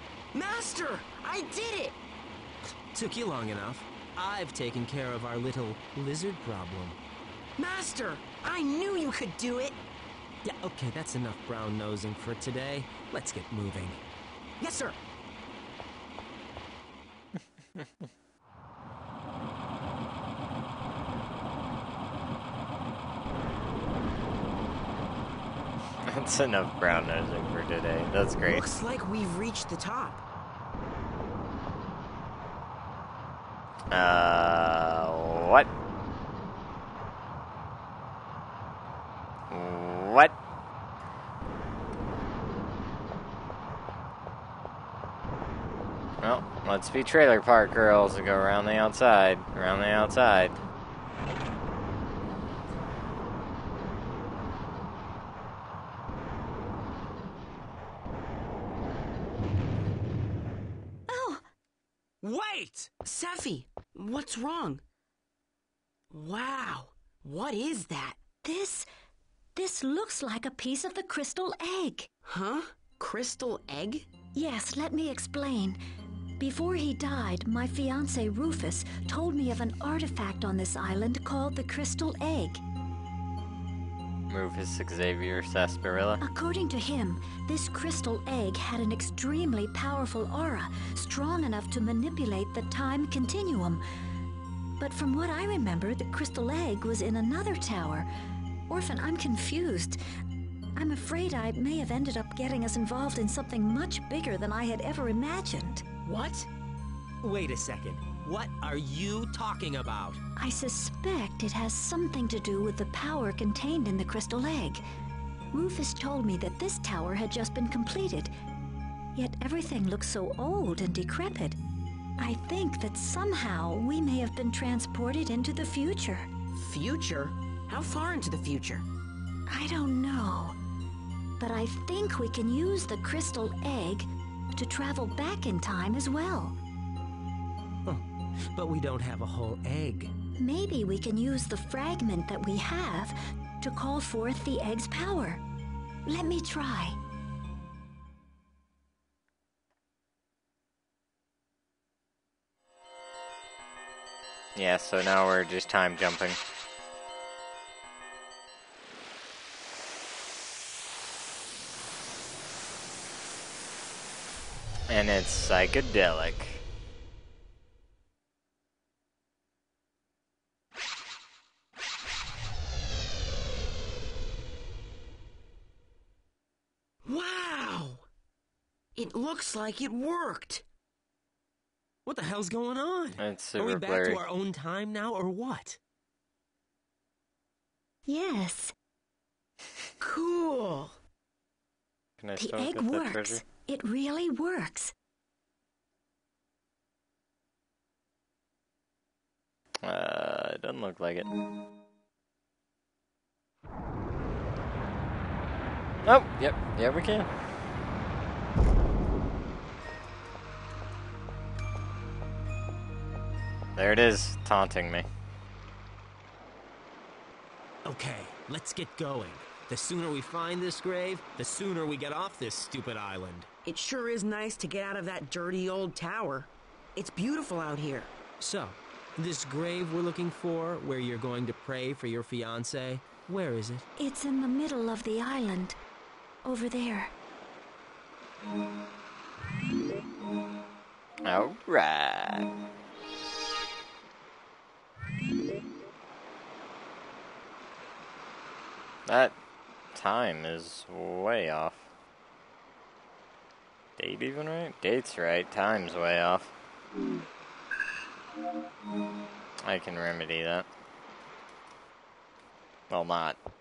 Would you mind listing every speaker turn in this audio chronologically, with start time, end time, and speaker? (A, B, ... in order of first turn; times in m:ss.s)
0:00.3-0:02.0 A
0:02.9-0:07.0 B
0:07.6-0:09.8 A
0:10.4-0:14.0 B
0:14.6-0:15.0 A
0:26.0-0:28.7 C
0:28.4-0:30.2 A
0:33.9-0:35.7 C
0:39.5-0:40.4 C
0:46.2-0:50.6 C
1:01.1-1:01.4 D
1:02.2-1:02.9 B
1:03.0-1:04.8 A
1:06.1-1:08.2 A
1:08.4-1:08.9 D
1:09.6-1:12.1 D
1:12.3-1:14.1 A
1:14.4-1:15.8 D
1:16.4-1:22.6 D
1:24.3-1:26.2 C
1:26.2-1:33.8 D
1:34.8-1:38.1 D
1:38.7-1:40.0 D
1:40.8-1:45.8 D
1:46.0-1:46.5 A
1:47.2-1:50.2 B
1:50.4-1:54.8 D
1:55.5-1:58.3 D
1:59.2-2:01.6 D
2:02.2-2:06.3 D
2:06.6-2:08.9 A
2:09.5-2:10.6 D
2:11.4-2:16.6 D
2:17.8-2:20.1 B
2:20.4-2:25.4 D
2:26.1-2:27.0 D
2:34.6-2:36.4 C
2:44.9-2:46.6 C
2:57.0-2:58.0 A
2:59.0-3:00.6 A
3:02.1-3:05.8 B
3:03.2-3:04.2 C
3:08.1-3:08.7 D
3:10.0-3:11.0 A
3:12.2-3:13.4 C
3:12.4-3:14.9 D
3:19.8-3:21.3 C
3:26.0-3:27.3 C
3:33.8-3:35.1 C
3:37.8-3:43.5 B
3:43.6-3:48.1 A
3:48.4-3:53.8 B
3:54.0-3:55.8 D
3:56.4-3:57.1 D
4:01.2-4:02.5 C
4:09.1-4:09.4 C
4:09.9-4:11.9 C
4:14.0-4:16.5 C
4:19.6-4:20.7 C
4:22.9-4:23.4 C